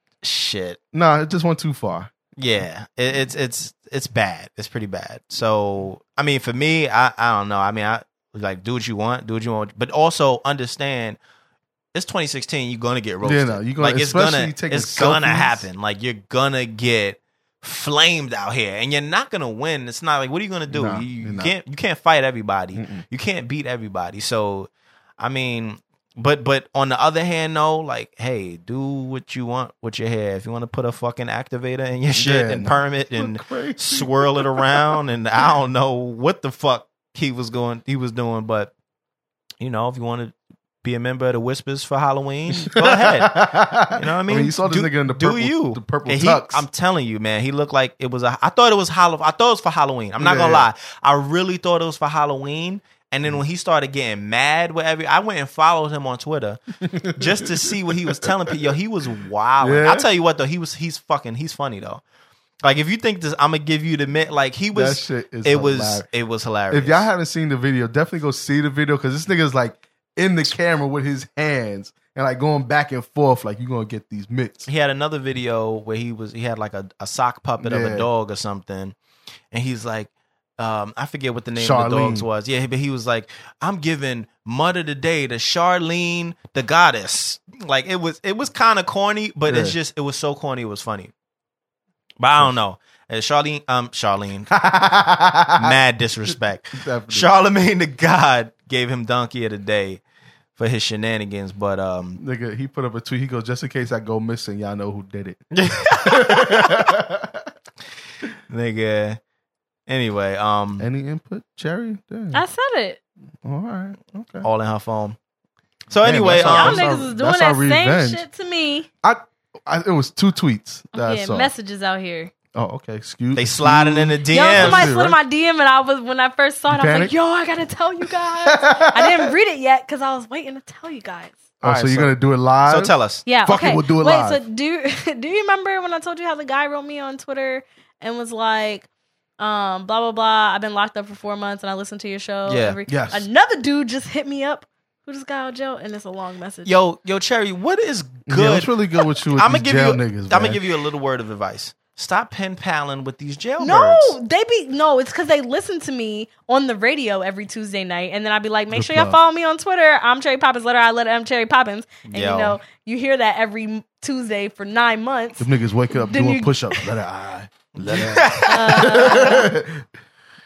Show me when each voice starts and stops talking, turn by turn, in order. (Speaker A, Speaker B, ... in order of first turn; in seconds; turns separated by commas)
Speaker A: 0.2-0.8, Speaker B: 0.9-2.1, Speaker A: 2.4-11.2, Speaker A: 11.9-38.7, Speaker B: 13.2-15.7, Speaker B: 20.7-21.5, Speaker B: 22.8-23.0, Speaker B: 32.1-35.0, Speaker A: 39.6-56.6, Speaker B: 42.6-46.6, Speaker B: 50.2-50.7, Speaker B: 56.8-58.3, Speaker A: 57.1-62.0, Speaker B: 59.6-60.1, Speaker A: 62.6-67.1, Speaker B: 64.7-66.1, Speaker B: 66.7-74.7, Speaker A: 74.7-79.0, Speaker B: 77.6-78.1, Speaker A: 79.5-91.1, Speaker B: 81.6-82.3, Speaker B: 89.5-89.8, Speaker A: 92.2-94.5, Speaker B: 94.5-95.8, Speaker A: 95.6-100.0, Speaker B: 96.3-97.3, Speaker A: 100.6-102.2, Speaker B: 102.2-107.5, Speaker A: 105.5-107.0, Speaker A: 108.5-109.2, Speaker A: 109.9-110.9, Speaker B: 110.8-112.4, Speaker C: 112.3-113.0, Speaker B: 113.4-114.5, Speaker A: 114.4-115.2, Speaker A: 115.9-116.8, Speaker B: 116.0-118.2, Speaker C: 116.4-118.9, Speaker B: 119.0-121.5, Speaker C: 120.9-122.3, Speaker B: 122.5-125.2, Speaker A: 123.3-125.0, Speaker C: 124.3-131.4, Speaker B: 126.7-127.1, Speaker B: 128.4-129.3, Speaker A: 131.6-132.1, Speaker B: 131.6-134.4, Speaker A: 132.7-133.3, Speaker C: 133.3-138.9, Speaker C: 139.4-146.8, Speaker A: 142.5-142.8, Speaker B: 142.9-143.3, Speaker A: 146.7-154.2, Speaker B: 148.3-150.6, Speaker C: 153.6-166.9, Speaker B: 158.7-159.2, Speaker A: 162.1-162.6, Speaker B: 165.4-169.8, Speaker A: 167.8-169.4, Speaker C: 168.5-169.5